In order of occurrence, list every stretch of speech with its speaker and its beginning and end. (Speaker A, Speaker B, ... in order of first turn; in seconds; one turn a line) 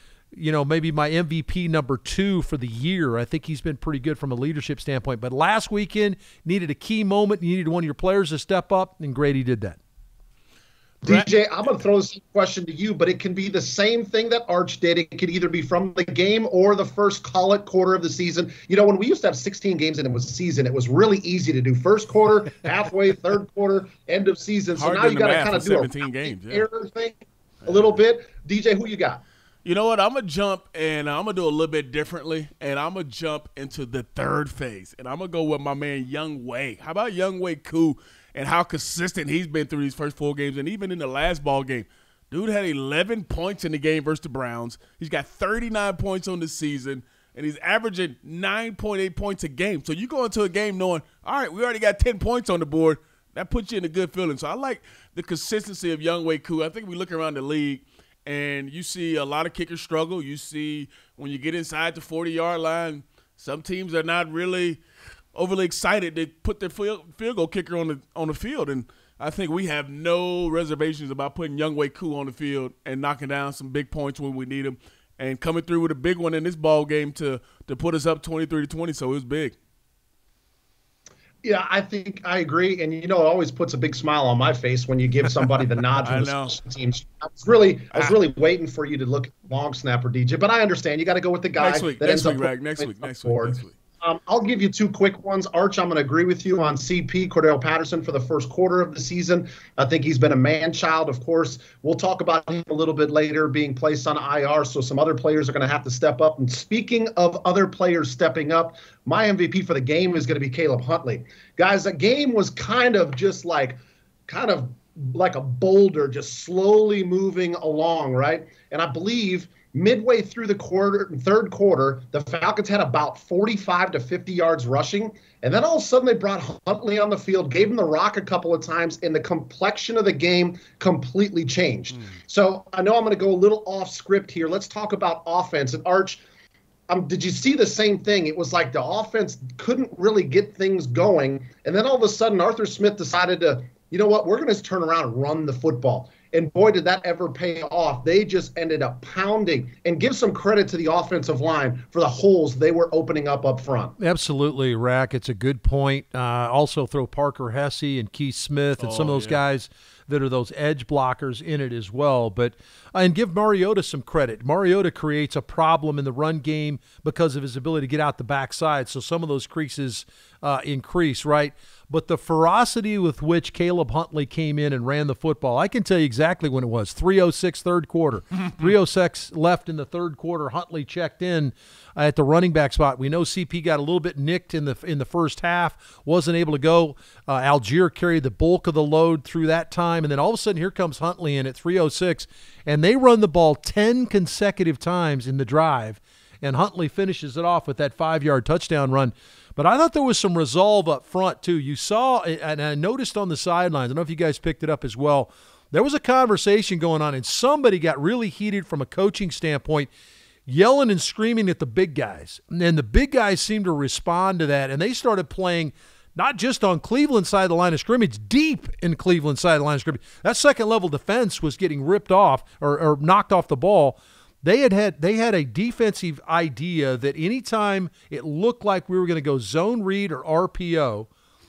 Speaker A: 0.3-9.8
Speaker B: 11.0-29.2
Speaker C: 24.8-26.7
Speaker C: 27.6-27.9
Speaker C: 29.6-64.8
Speaker C: 65.3-79.5
Speaker B: 81.4-136.2
Speaker C: 86.0-86.5
Speaker C: 91.6-93.7
Speaker B: 136.9-154.0
Speaker A: 154.0-209.9
Speaker C: 158.8-159.4
Speaker A: 210.5-231.1